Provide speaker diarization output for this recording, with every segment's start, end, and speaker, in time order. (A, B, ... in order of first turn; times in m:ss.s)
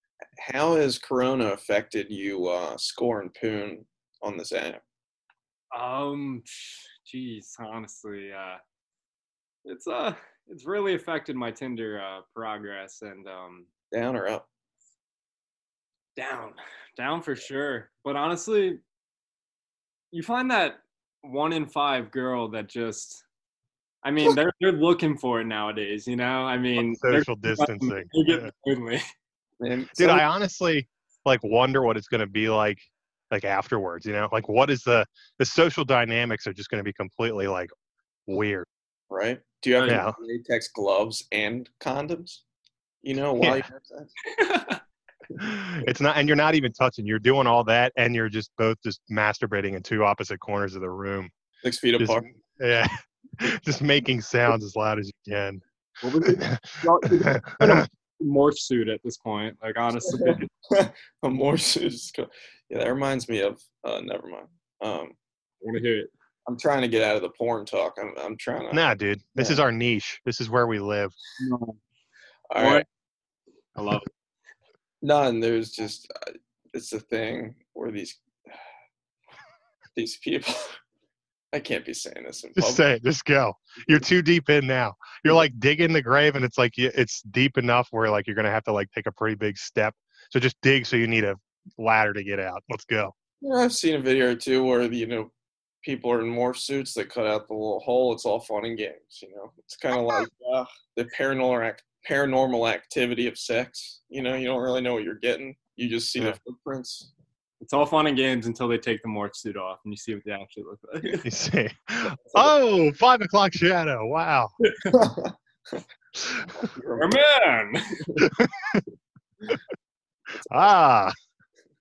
0:00.4-0:04.8 A
0:05.7-0:08.6 B
0:09.6-0:13.7 B
0:13.9-0:14.5 A
0:16.2-0:18.8 B
0:20.1-0:23.2 B
0:24.0-0:29.0 B
0:26.8-0:28.5 C
0:29.6-0:30.2 A
0:30.0-0:37.7 C
0:38.3-0:38.6 C
0:39.1-0:42.4 A
0:39.8-0:40.2 C
0:43.0-0:44.1 A
0:43.4-0:43.6 C
0:44.3-0:44.8 B
0:45.4-0:51.3 C
0:51.6-0:52.3 A
0:52.0-0:55.6 C
0:56.0-0:57.4 A
0:56.2-0:57.8 C
0:57.6-1:00.5 B
1:00.1-1:05.2 A
1:05.6-1:06.1 B
1:06.4-1:08.8 A
1:08.7-1:11.1 C
1:09.4-1:09.6 A
1:11.4-1:11.8 B
1:12.5-1:12.8 A
1:12.6-1:12.8 B
1:13.8-1:14.1 B
1:15.0-1:16.1 A
1:16.7-1:18.2 A
1:20.0-1:20.8 A
1:21.5-1:22.8 A
1:22.6-1:33.1 C
1:33.4-1:35.3 A
1:35.8-1:47.1 A
1:47.6-1:51.2 B
1:51.2-1:54.5 C
1:52.2-1:52.5 A
1:54.9-1:55.4 A
1:56.2-1:56.6 C
1:56.6-1:57.2 A
1:57.0-1:58.0 B
1:58.2-1:58.8 C
2:00.5-2:01.1 C